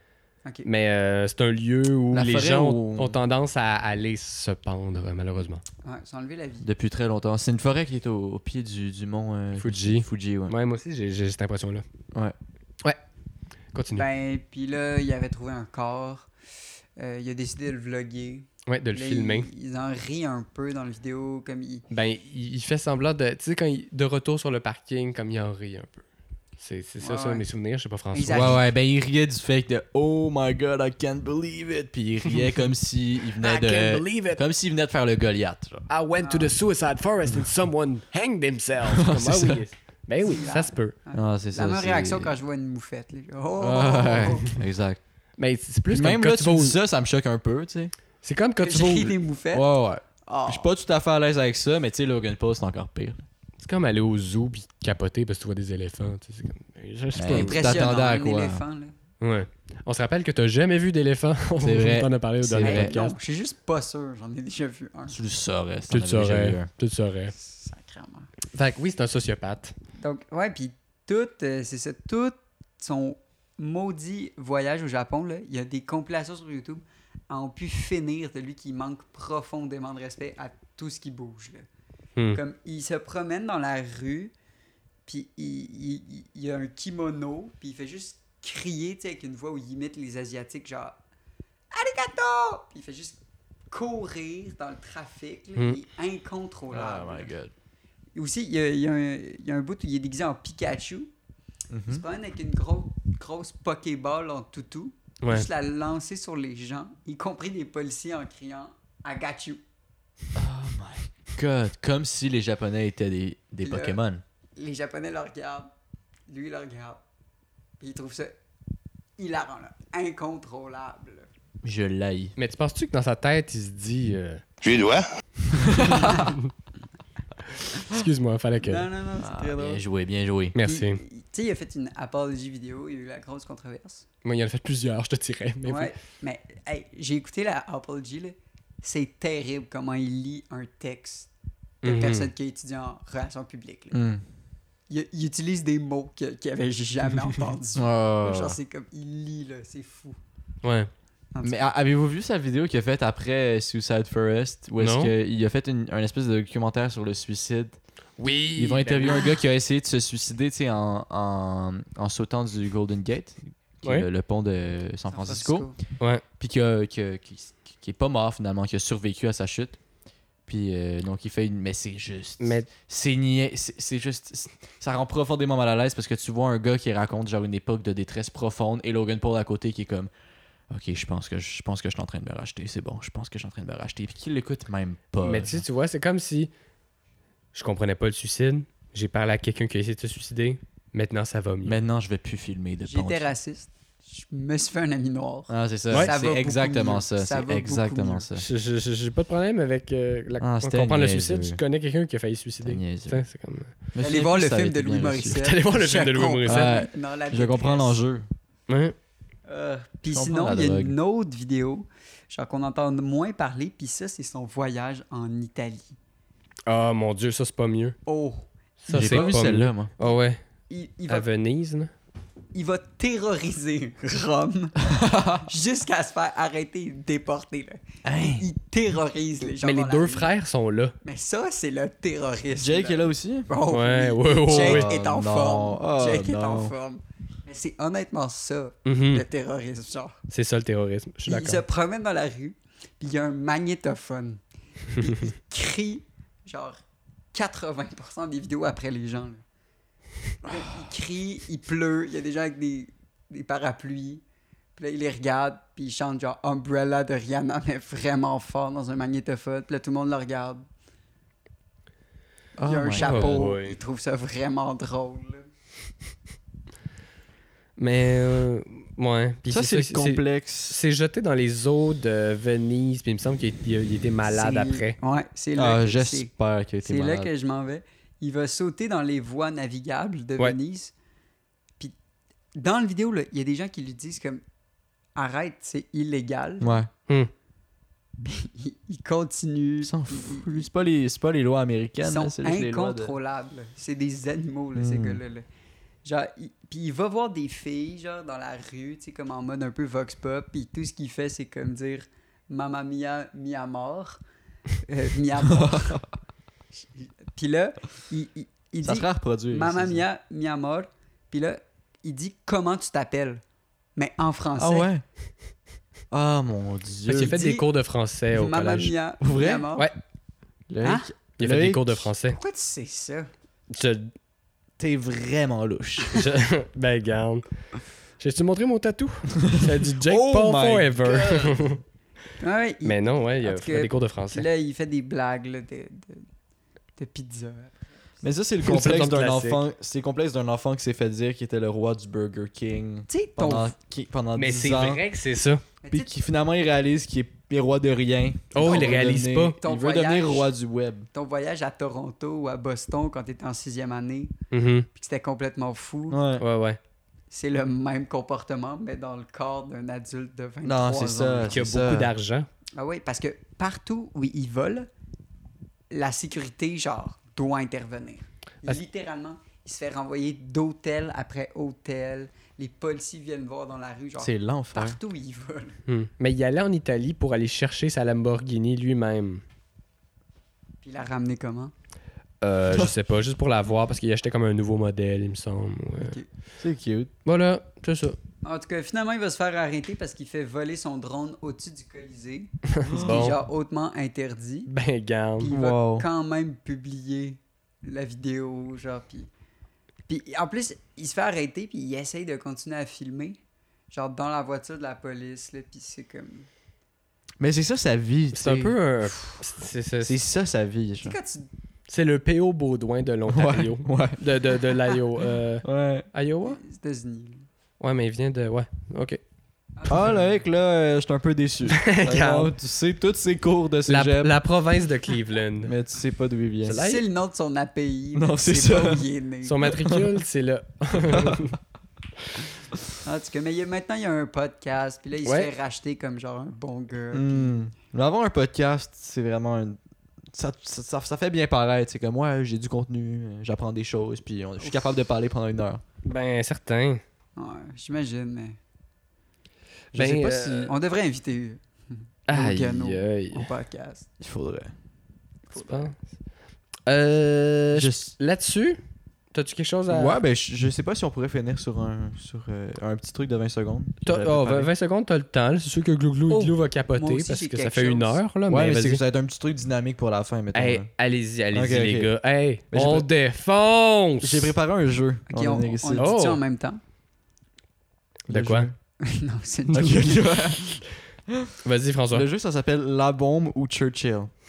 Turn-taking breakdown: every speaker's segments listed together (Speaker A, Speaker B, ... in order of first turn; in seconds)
Speaker A: 0.6-5.6, 9.6-11.8, 13.7-14.1, 18.7-19.5, 21.9-26.0, 26.6-28.6, 33.4-34.4, 35.9-41.0, 45.4-46.8, 48.2-49.1, 53.6-57.6, 59.2-63.1, 65.9-67.3, 68.5-69.7, 122.4-124.5, 125.8-126.5, 127.7-128.9, 130.6-131.0, 134.2-135.9, 141.8-142.3, 150.6-150.9, 154.8-155.1, 158.2-159.2, 172.4-172.7, 185.2-186.5, 187.5-191.8, 198.4-203.8, 205.4-206.8, 208.7-208.9, 216.7-218.0, 218.8-220.4, 221.1-221.9, 229.6-230.9, 233.7-234.9, 238.8-239.2, 240.3-241.6, 245.0-245.3, 263.0-263.8, 267.8-275.0, 317.1-318.9, 321.4-322.4, 323.7-324.1, 326.1-327.4, 328.2-331.8, 332.9-334.5, 338.6-339.6, 344.4-345.6, 348.5-349.6, 354.5-354.9, 356.4-356.8, 361.5-362.5, 375.9-379.4, 382.4-386.1, 387.2-388.2, 392.7-393.4, 394.7-395.5, 408.3-410.2, 411.9-416.6, 417.8-419.2, 421.7-422.5, 423.9-425.7, 426.6-427.0, 429.4-431.6, 446.0-447.0, 449.9-450.6, 452.3-453.5, 455.5-455.9, 456.9-458.8, 459.3-460.2, 464.1-469.0, 470.5-474.5, 476.0-476.4, 478.3-478.7, 481.6-482.3
Speaker B: 2.1-3.2, 6.6-10.5, 28.3-35.9, 39.0-39.6, 41.1-42.4, 43.6-45.0, 45.9-47.9, 49.5-53.2, 57.1-58.6, 61.6-63.0, 65.1-66.7, 96.7-97.5, 101.7-102.0, 110.4-114.2, 121.6-122.3, 124.7-126.3, 129.2-130.6, 143.9-144.2, 147.8-148.6, 151.4-157.8, 158.6-165.7, 166.4-169.8, 170.5-180.1, 180.7-185.6, 191.7-193.3, 195.5-198.5, 200.4-201.6, 202.6-203.2, 203.9-205.4, 206.5-208.3, 210.1-211.0, 218.9-219.9, 224.8-225.5, 228.1-228.5, 232.6-233.5, 234.5-236.7, 262.6-263.4, 269.5-270.8, 275.6-277.3, 286.6-286.9, 289.8-293.1, 294.8-295.2, 305.5-306.0, 308.8-310.0, 314.6-315.0, 316.1-317.4, 319.2-319.7, 320.7-322.1, 324.8-326.2, 329.4-331.8, 338.2-345.0, 345.9-351.1, 356.1-356.4, 360.6-362.1, 374.2-375.0, 386.6-387.1, 392.9-393.2, 395.5-396.1, 407.4-409.1, 410.0-411.2, 413.3-415.0, 415.6-416.1, 419.9-424.4, 425.6-426.8, 428.1-429.1, 429.6-430.1, 430.9-431.5, 437.1-439.8, 440.3-445.8, 449.9-450.7, 454.2-454.7, 457.7-458.1, 459.9-464.7, 468.5-470.9, 471.5-472.1, 472.7-473.1, 474.2-476.1, 478.3-478.7, 479.7-481.6, 482.1-484.3
Speaker C: 5.8-6.7, 14.0-16.3, 17.0-21.9, 27.0-27.5, 28.1-28.7, 36.2-36.6, 40.2-44.6, 48.6-49.7, 50.3-50.7, 57.3-58.9, 62.6-65.2, 67.3-68.3, 70.0-81.7, 82.3-84.3, 85.1-91.0, 91.7-93.2, 93.7-97.3, 98.2-101.1, 101.9-109.6, 113.6-114.0, 114.6-115.7, 116.3-117.0, 117.8-118.3, 119.2-121.3, 125.8-126.3, 128.6-129.8, 130.6-134.1, 135.7-141.3, 141.8-144.0, 144.9-150.2, 151.3-151.7, 165.1-165.8, 192.8-198.3, 204.0-208.0, 209.5-216.0, 218.1-219.3, 220.7-221.3, 222.5-224.8, 225.4-230.3, 231.0-240.2, 241.3-246.8, 247.3-249.4, 250.4-254.2, 254.8-260.6, 262.6-265.5, 274.2-276.3, 276.9-280.9, 282.6-284.4, 285.1-286.8, 288.2-290.7, 292.0-295.4, 296.0-304.2, 304.8-306.0, 306.8-313.4, 314.0-314.9, 317.1-317.7, 318.3-319.9, 320.8-321.1, 322.3-323.3, 332.4-336.3, 337.0-337.9, 343.1-343.7, 345.8-346.2, 348.6-350.5, 351.1-354.3, 354.9-356.2, 357.3-361.6, 362.8-364.9, 365.9-375.8, 380.8-381.7, 386.0-386.3, 388.4-394.7, 395.4-399.3, 400.1-403.4, 403.9-406.5, 411.0-411.5, 416.4-417.5, 419.8-420.4, 426.7-429.6, 433.0-437.7, 447.4-448.6, 450.5-454.1, 455.5-455.9, 466.3-468.2, 475.3-476.8, 479.0-480.8